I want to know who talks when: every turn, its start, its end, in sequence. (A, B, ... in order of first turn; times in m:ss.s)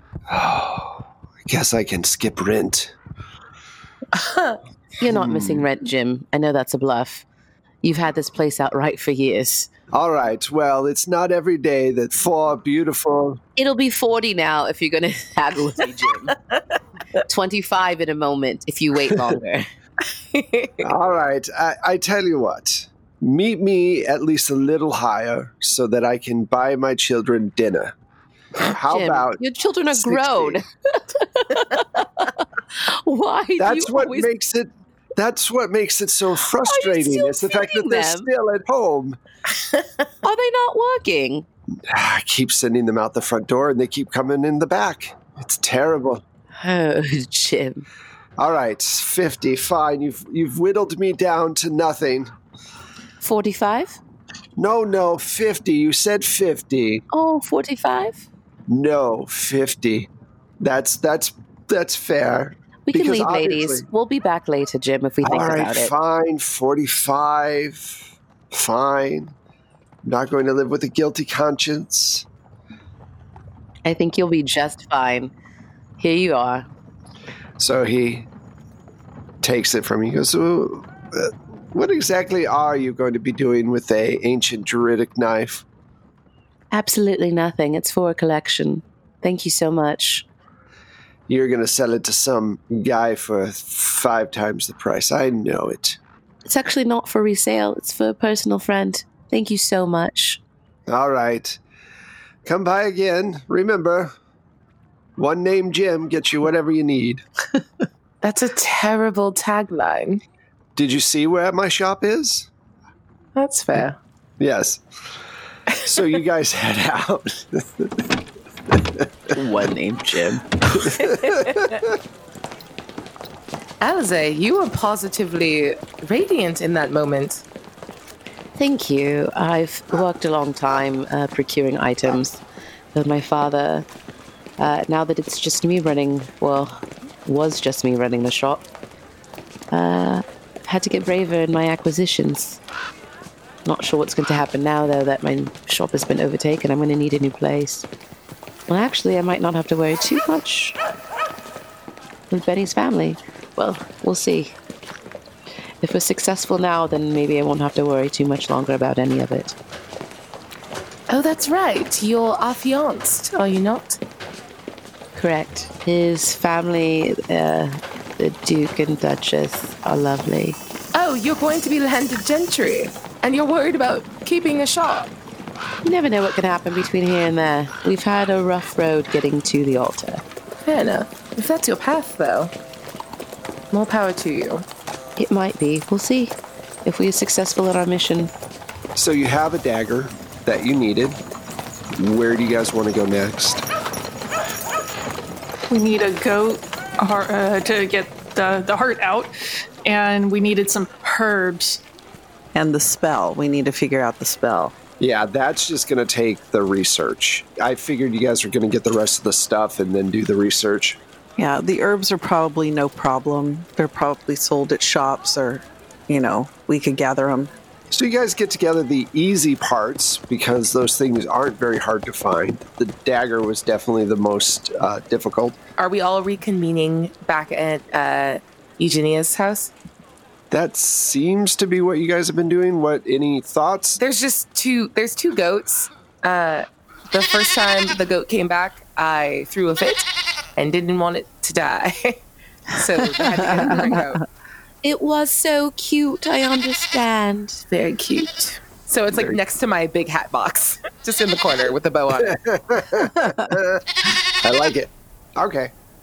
0:00.3-0:02.9 A
0:04.1-0:04.6 B
0:05.0-0:07.2 C
0:05.0-0:05.7 A
0:07.8-0:09.7 C
0:09.9-0:13.4 A
0:13.6-0:16.3 C
0:17.3-0:19.7 C
0:20.3-0:20.9 B
0:20.8-0:27.9 A
0:28.6-0:29.4 A
0:28.9-0:34.3 C
0:29.9-0:30.6 A
0:33.6-0:39.2 A
0:36.6-0:38.3 C
0:40.2-0:41.4 C
0:41.8-0:46.2 A
0:46.6-0:47.8 C
0:48.4-0:52.3 A
0:53.2-0:54.0 C
0:54.6-0:57.0 A
0:57.1-0:58.3 C
0:58.7-1:00.1 A
1:00.6-1:03.8 A
1:02.8-1:05.9 C
1:05.2-1:09.3 A
1:10.0-1:12.2 A
1:13.8-1:15.3 C
1:16.0-1:16.6 C
1:17.6-1:18.3 A
1:19.4-1:25.6 A
1:26.7-1:30.2 C
1:31.3-1:36.0 A
1:36.4-1:40.4 C
1:40.9-1:41.6 A
1:42.4-1:44.1 A
1:45.2-1:47.2 A
1:48.2-1:50.2 B
1:50.8-1:52.5 A
1:53.3-1:54.0 B
1:54.4-1:54.8 A
1:55.8-1:58.1 A
1:58.7-1:59.1 A
1:59.3-2:00.4 C
2:00.7-2:02.0 A
2:01.0-2:01.6 B
2:03.8-2:07.4 B
2:08.6-2:12.4 C
2:12.9-2:13.9 C
2:14.6-2:18.6 C
2:19.7-2:22.6 C
2:23.6-2:27.8 C
2:28.7-2:30.8 C
2:32.3-2:34.6 C
2:35.8-2:39.6 C
2:41.1-2:44.0 B
2:45.1-2:50.6 C
2:50.9-2:55.1 B
2:55.8-3:00.2 C
3:00.6-3:02.5 B
3:03.7-3:04.6 B
3:05.2-3:06.3 C
3:06.8-3:08.3 C
3:09.0-3:11.2 A
3:11.9-3:13.6 A
3:15.7-3:19.3 D
3:19.8-3:21.8 D
3:22.5-3:24.7 E
3:25.0-3:31.0 A
3:31.4-3:37.5 E
3:37.9-3:45.6 A
3:45.8-3:49.7 B
3:50.5-3:54.0 A
3:54.0-4:04.2 B
4:03.2-4:04.2 E
4:04.8-4:07.6 C
4:07.7-4:12.4 B
4:09.1-4:09.4 A
4:12.2-4:13.8 A
4:14.4-4:15.7 A